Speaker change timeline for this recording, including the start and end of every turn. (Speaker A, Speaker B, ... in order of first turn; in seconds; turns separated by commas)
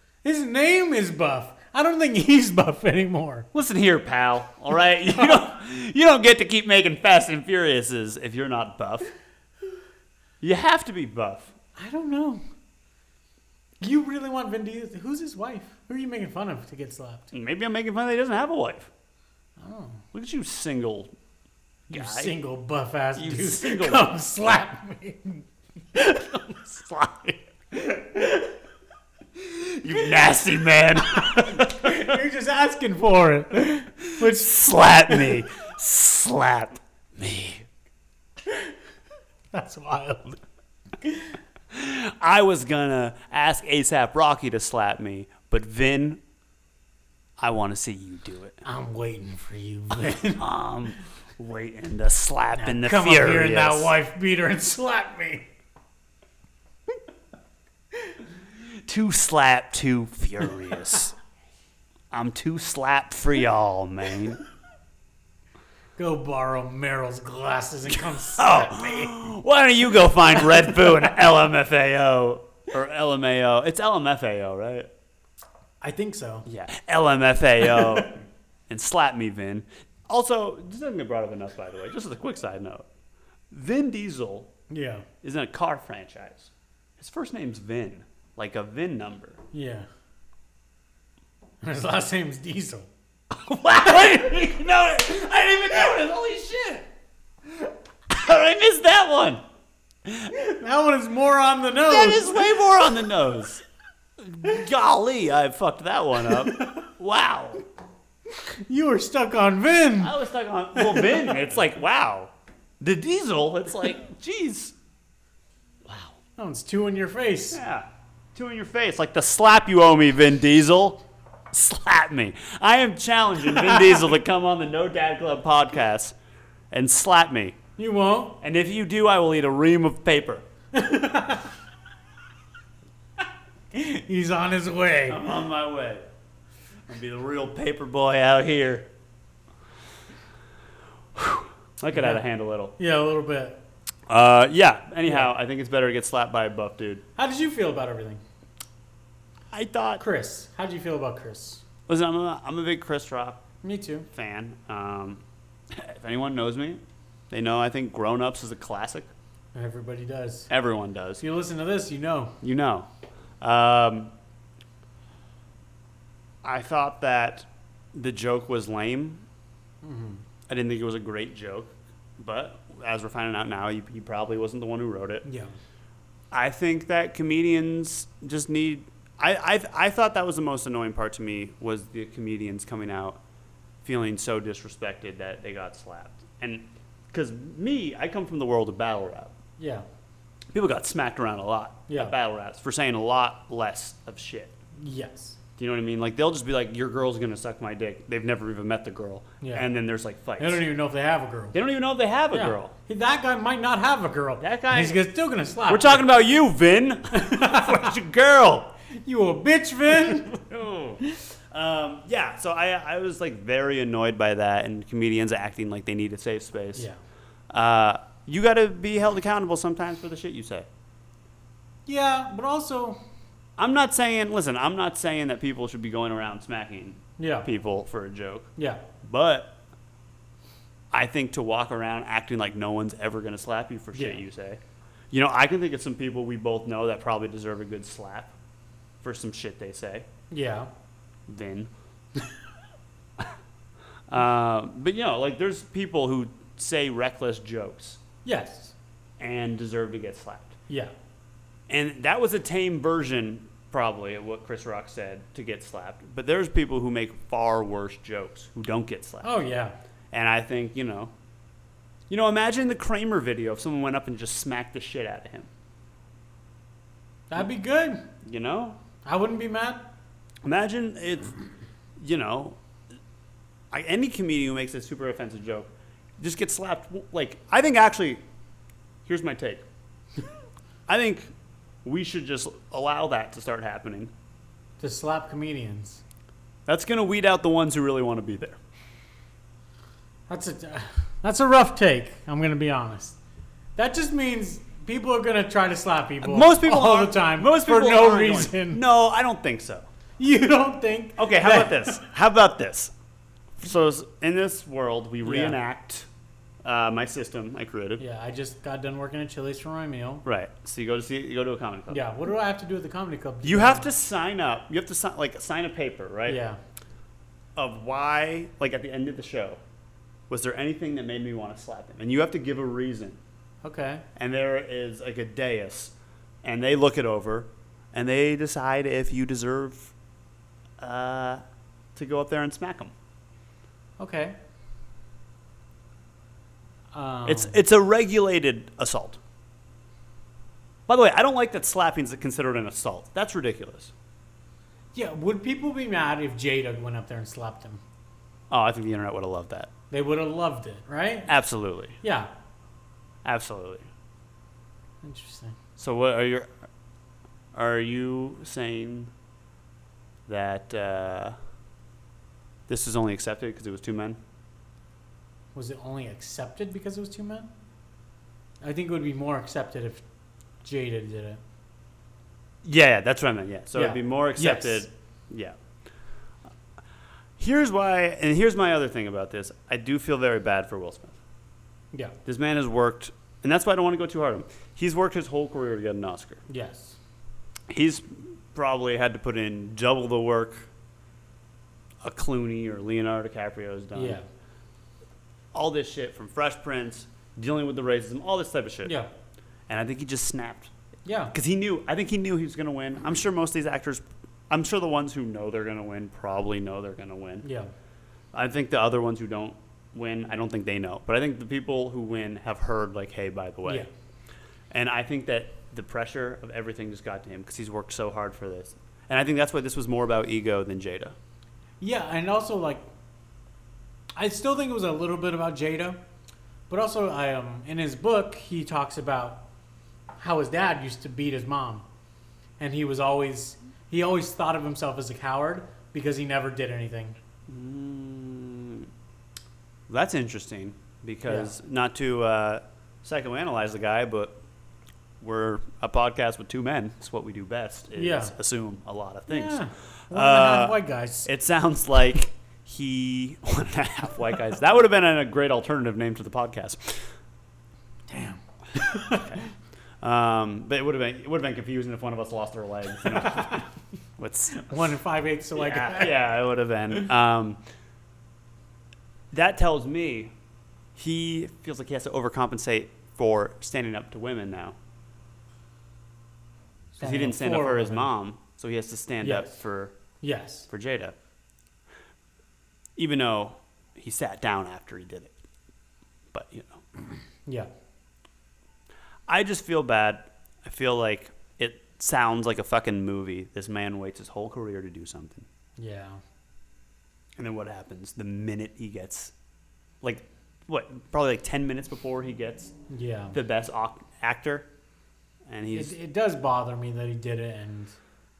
Speaker A: 0.2-3.5, Speaker B: 3.5-9.1, Speaker A: 5.1-5.4, Speaker B: 10.4-11.5, Speaker A: 11.8-12.4, Speaker A: 13.8-17.3, Speaker B: 17.3-18.9, Speaker A: 19.6-20.0, Speaker B: 20.1-21.1, Speaker A: 21.9-25.4, Speaker B: 21.9-22.3, Speaker B: 23.1-24.1, Speaker B: 25.9-28.0, Speaker A: 28.1-28.5, Speaker B: 29.4-32.1, Speaker A: 31.1-35.2, Speaker B: 34.2-37.7, Speaker A: 39.5-40.4, Speaker A: 41.0-41.3, Speaker B: 41.7-46.2, Speaker B: 47.4-48.6, Speaker A: 48.6-50.4, Speaker B: 50.3-53.9, Speaker A: 52.6-55.5, Speaker B: 58.8-61.1, Speaker B: 62.1-64.4, Speaker A: 66.0-69.2, Speaker B: 68.0-74.9, Speaker A: 75.8-76.5, Speaker B: 76.5-82.8, Speaker A: 77.8-78.0, Speaker B: 83.5-84.5, Speaker A: 84.7-85.0, Speaker B: 85.2-89.4, Speaker A: 89.5-89.9, Speaker A: 91.6-92.9, Speaker B: 93.3-96.9, Speaker A: 93.6-94.2, Speaker B: 98.1-99.4, Speaker B: 100.0-100.3, Speaker A: 100.3-102.5, Speaker B: 101.8-103.6, Speaker B: 104.2-107.6, Speaker A: 106.2-106.7, Speaker A: 108.4-110.2, Speaker B: 110.0-114.7, Speaker A: 110.8-111.2, Speaker B: 115.8-116.1, Speaker A: 116.4-117.6, Speaker B: 117.5-126.2, Speaker B: 126.7-127.6, Speaker A: 127.8-128.4, Speaker B: 128.4-130.4, Speaker A: 130.7-131.5, Speaker A: 133.7-135.2, Speaker B: 135.1-136.0, Speaker B: 136.9-138.9, Speaker B: 141.2-142.7, Speaker A: 141.9-142.2, Speaker A: 142.8-143.6, Speaker B: 144.1-147.0, Speaker A: 147.2-148.2, Speaker B: 149.5-150.0, Speaker A: 150.0-151.6, Speaker B: 151.9-153.4, Speaker A: 153.6-154.1, Speaker B: 154.1-159.1, Speaker A: 159.5-160.5, Speaker B: 160.5-161.2, Speaker A: 161.2-162.4, Speaker B: 162.4-162.9, Speaker B: 163.4-164.1, Speaker B: 166.4-169.2, Speaker A: 169.8-170.2, Speaker B: 170.5-175.2, Speaker A: 175.2-175.5, Speaker B: 176.3-183.2, Speaker B: 183.8-189.3, Speaker A: 189.6-189.8, Speaker B: 190.5-194.6, Speaker A: 191.9-192.1, Speaker A: 194.8-195.4, Speaker B: 195.6-200.6, Speaker A: 199.4-199.7, Speaker A: 200.4-201.6, Speaker B: 201.5-202.7, Speaker A: 202.3-206.0, Speaker B: 204.4-205.0, Speaker B: 205.7-208.7, Speaker A: 207.1-207.9, Speaker A: 209.0-210.4, Speaker B: 210.0-216.9, Speaker B: 217.5-220.7, Speaker A: 221.8-223.0, Speaker B: 223.6-228.5, Speaker A: 227.2-227.5, Speaker A: 228.6-228.8, Speaker B: 229.0-229.6, Speaker B: 230.9-234.6, Speaker A: 233.9-234.2, Speaker B: 235.1-238.3, Speaker B: 239.0-240.1, Speaker A: 240.3-240.7, Speaker B: 241.3-241.7, Speaker B: 244.1-248.0, Speaker A: 248.2-248.7, Speaker B: 249.2-250.6, Speaker B: 251.7-259.3, Speaker A: 259.2-259.7, Speaker B: 260.1-261.1, Speaker B: 262.1-265.5, Speaker A: 267.3-268.1, Speaker B: 268.2-268.8, Speaker A: 269.0-269.9, Speaker B: 270.4-271.4, Speaker B: 272.0-272.6, Speaker B: 273.7-278.2, Speaker B: 279.1-279.6, Speaker B: 280.9-281.3, Speaker B: 281.8-284.1, Speaker A: 284.8-286.0, Speaker B: 286.7-288.6, Speaker A: 290.3-293.2, Speaker A: 293.8-298.8, Speaker B: 296.2-299.9, Speaker A: 300.2-302.0, Speaker B: 301.2-302.9, Speaker B: 303.6-306.1, Speaker A: 305.2-305.6, Speaker B: 306.6-308.0, Speaker A: 308.0-310.2, Speaker B: 310.2-312.0, Speaker A: 311.9-313.9, Speaker B: 313.4-316.4, Speaker A: 316.3-316.6, Speaker B: 317.6-319.6, Speaker B: 320.3-323.2, Speaker A: 323.6-324.0, Speaker B: 324.1-329.9, Speaker B: 330.8-331.4, Speaker B: 331.9-332.9, Speaker A: 334.0-334.4, Speaker A: 336.9-337.6, Speaker B: 337.2-339.2, Speaker B: 340.9-343.9, Speaker A: 344.9-347.8, Speaker B: 348.5-349.7, Speaker A: 349.9-351.3, Speaker B: 351.3-352.0, Speaker A: 352.0-352.3, Speaker B: 353.2-353.9, Speaker A: 355.0-355.6, Speaker B: 355.8-356.6, Speaker B: 357.5-359.1, Speaker B: 360.3-361.4, Speaker B: 362.7-364.2, Speaker A: 365.5-367.5, Speaker A: 368.6-370.0, Speaker A: 370.6-371.4, Speaker B: 372.6-375.6, Speaker A: 373.7-374.9, Speaker B: 377.4-381.2, Speaker B: 382.2-386.4, Speaker A: 386.5-387.0, Speaker B: 387.7-390.7, Speaker B: 392.0-394.2, Speaker A: 393.9-394.3, Speaker B: 395.5-399.0, Speaker A: 398.8-399.1, Speaker B: 399.7-400.7, Speaker A: 401.1-401.3, Speaker B: 401.3-407.4, Speaker A: 407.4-407.7, Speaker B: 408.3-413.9, Speaker B: 414.7-421.1, Speaker A: 421.8-422.8, Speaker A: 424.1-426.0, Speaker A: 426.7-429.4, Speaker A: 430.2-431.8, Speaker A: 432.6-437.2, Speaker B: 437.5-438.9, Speaker B: 439.9-444.4, Speaker A: 441.3-441.5, Speaker B: 445.2-457.1, Speaker A: 447.9-448.3, Speaker A: 449.3-451.3, Speaker A: 458.1-459.4, Speaker B: 459.1-459.4, Speaker B: 460.0-464.9, Speaker A: 463.1-463.6, Speaker A: 464.5-466.2, Speaker B: 465.5-467.6, Speaker B: 469.3-470.3, Speaker B: 470.9-474.8, Speaker A: 476.9-478.1, Speaker B: 477.0-479.9, Speaker A: 479.2-479.5, Speaker A: 480.2-480.7, Speaker B: 480.7-481.1, Speaker B: 482.9-485.3, Speaker B: 486.3-486.8, Speaker B: 489.3-495.5, Speaker A: 495.8-496.2, Speaker B: 497.4-499.3, Speaker B: 500.0-502.7, Speaker A: 502.9-503.4, Speaker B: 503.3-504.7, Speaker B: 505.4-505.9, Speaker A: 505.7-508.0